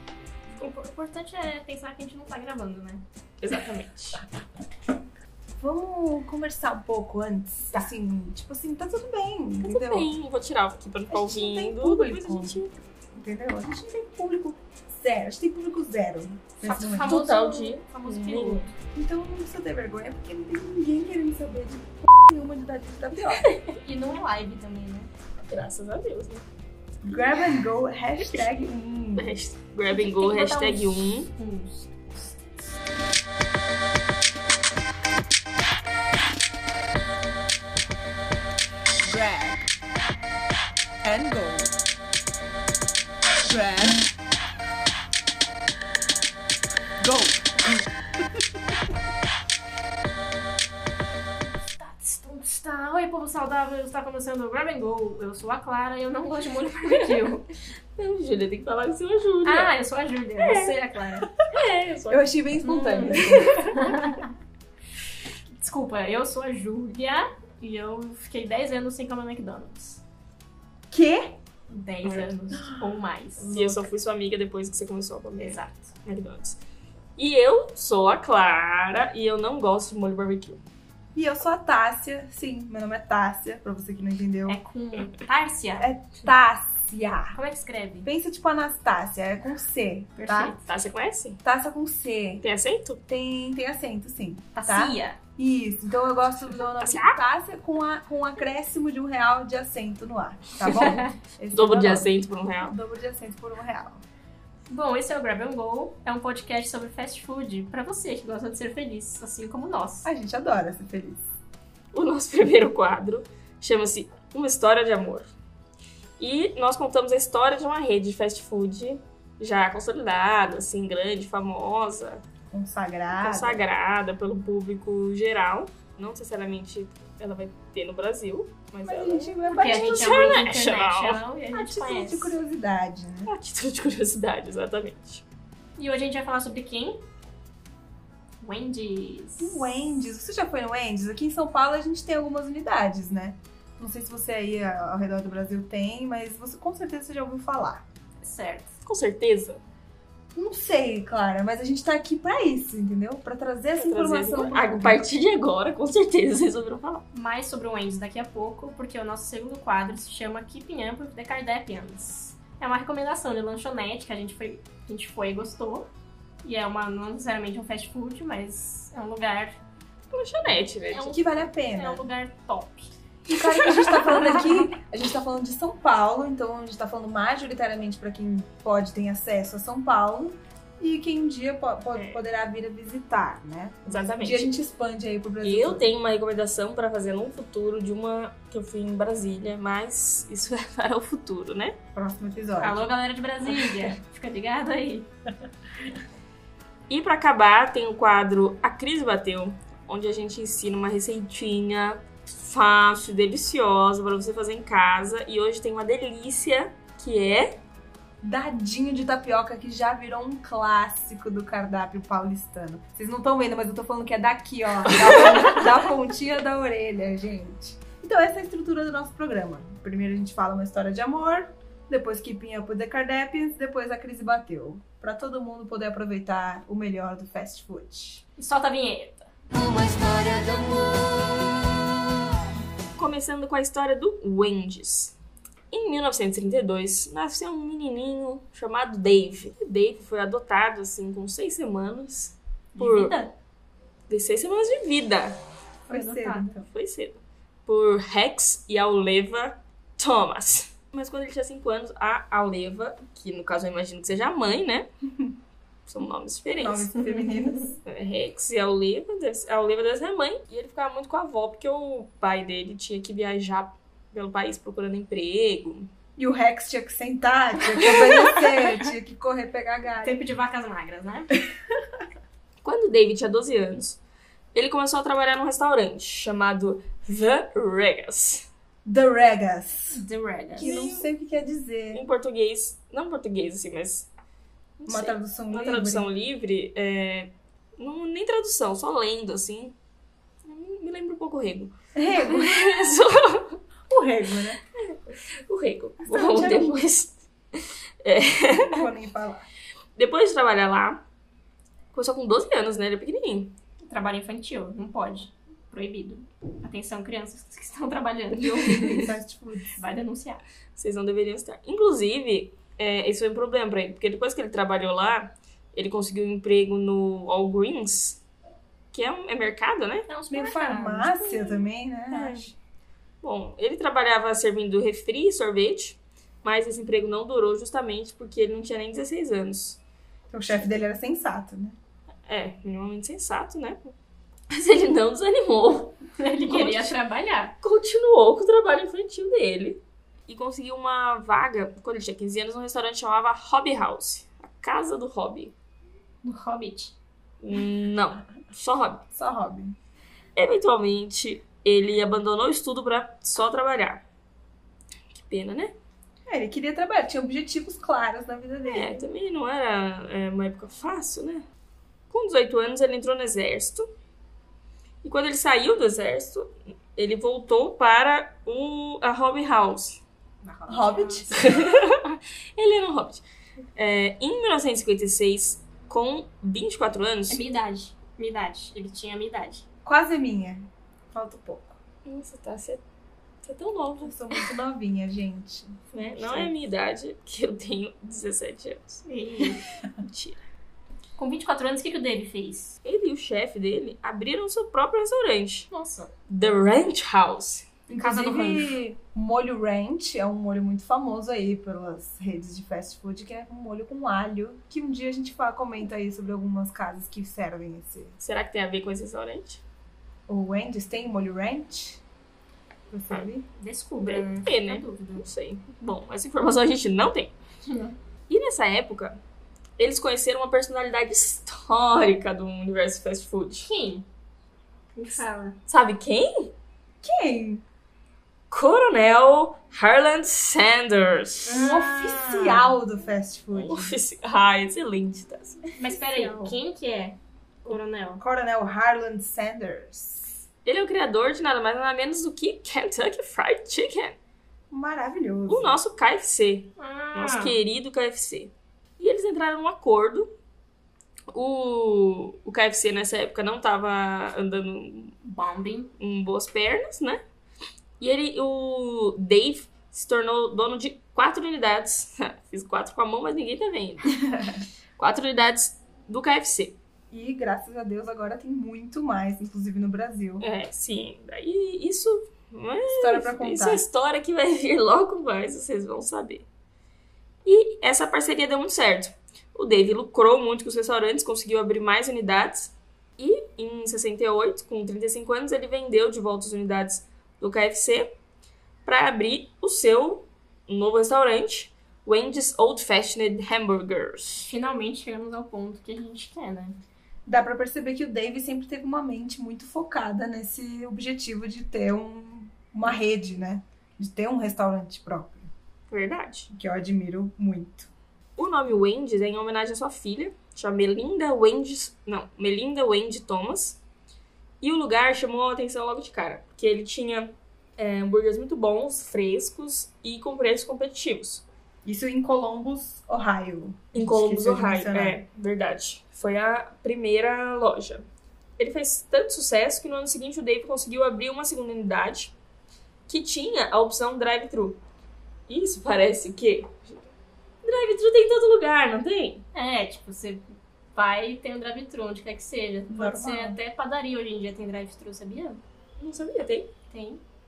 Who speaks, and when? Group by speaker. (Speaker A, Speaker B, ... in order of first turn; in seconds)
Speaker A: 0.6-3.0, 16.6-18.7, 23.4-25.1, 29.9-32.3, 51.8-57.5, 59.5-61.3, 62.6-64.3, 65.6-70.0, 71.7-73.9, 75.4-76.0, 84.5-85.9, 87.3-88.1, 90.2-90.6, 94.5-95.2, 100.6-101.1, 104.7-110.1, 129.5-132.3, 135.8-137.0, 138.4-139.9, 148.2-148.8, 157.1-165.9, 166.4-169.6, 170.9-172.9, 173.8-174.7, 192.6-195.1, 228.4-231.0, 242.8-243.3, 245.9-246.6, 270.0-271.4, 279.9-280.7, 303.9-309.1, 309.7-310.4, 320.1-321.7, 336.2-337.6, 346.2-346.9, 370.4-371.5, 377.3-379.6, 389.1-389.6, 391.2-392.8, 395.7-396.1, 398.0-398.7, 413.6-415.3, 417.6-418.0, 423.6-424.0, 424.9-425.6, 431.4-432.7, 435.7-438.2, 446.8-447.6, 455.2-455.9, 494.4-496.8, 539.5-545.6, 546.9-547.2
Speaker B: 3.4-4.2, 9.6-12.7, 17.1-18.7, 25.4-26.4, 29.2-31.3, 58.0-59.7, 60.4-60.7, 61.5-63.8, 73.4-76.6, 77.2-80.6, 90.6-91.4, 92.4-93.0, 96.8-97.2, 101.5-102.8, 111.9-115.3, 116.2-122.2, 123.2-131.2, 133.2-135.2, 148.8-149.6, 153.8-157.0, 170.1-171.1, 181.9-182.2, 183.9-184.5, 185.4-191.8, 196.9-207.6, 215.1-215.3, 233.0-235.2, 235.7-243.2, 244.1-245.4, 246.7-254.9, 255.8-257.0, 257.8-265.9, 272.6-274.0, 274.5-278.5, 280.6-281.0, 281.9-284.1, 284.8-289.7, 290.4-291.7, 292.3-293.6, 294.9-298.7, 299.9-301.0, 301.9-303.6, 310.8-318.2, 318.9-320.1, 322.1-322.5, 323.2-329.8, 332.3-333.9, 334.5-336.9, 337.6-345.5, 347.4-349.0, 350.4-354.0, 355.2-355.7, 358.7-361.4, 362.1-363.9, 365.0-370.0, 371.3-373.2, 373.8-377.4, 382.0-382.8, 383.4-384.2, 385.9-389.0, 390.0-390.4, 392.8-395.7, 396.3-397.6, 408.2-409.6, 414.0-417.3, 418.3-419.2, 419.8-423.7, 425.7-426.5, 428.5-431.6, 433.5-435.6, 440.6-444.1, 445.5-450.3, 451.3-455.1, 456.0-457.2, 458.0-464.2, 465.0-466.8, 470.4-476.4, 477.4-488.1, 488.8-494.5, 505.9-506.5, 508.4-513.8, 514.6-521.4, 523.9-528.0, 528.6-532.3, 533.1-534.8, 535.5-537.1, 537.6-539.4, 546.0-546.7
Speaker C: 5.6-10.1, 11.1-12.6, 13.1-17.2, 18.9-23.5, 27.0-29.3, 39.1-39.6, 41.0-41.7, 43.5-44.0, 47.0-47.9, 62.1-63.7, 70.9-71.4, 81.1-84.6, 85.8-87.4, 88.0-90.6, 91.4-92.4, 93.1-102.1, 102.6-104.0, 110.0-111.3, 122.5-123.6, 128.8-130.4, 131.5-133.3, 139.4-147.8, 150.3-155.1, 171.0-172.1, 173.3-185.9, 191.9-192.9, 208.2-228.2, 245.9-246.7, 256.6-257.8, 266.2-270.2, 278.8-280.0, 280.6-282.0, 284.9-286.1, 291.9-292.9, 293.9-294.6, 296.0-296.7, 298.6-299.4, 308.8-309.8, 320.3-322.5, 330.3-331.8, 349.1-349.8, 356.3-359.1, 370.7-371.3, 379.8-381.8, 384.0-386.5, 397.9-408.1, 410.3-412.0, 412.9-413.4, 427.0-427.6, 431.6-433.9, 436.1-436.5, 438.2-440.3, 444.7-445.8, 467.1-470.4, 472.9-473.8, 497.2-505.5, 506.5-507.9, 521.8-525.2, 542.9-543.6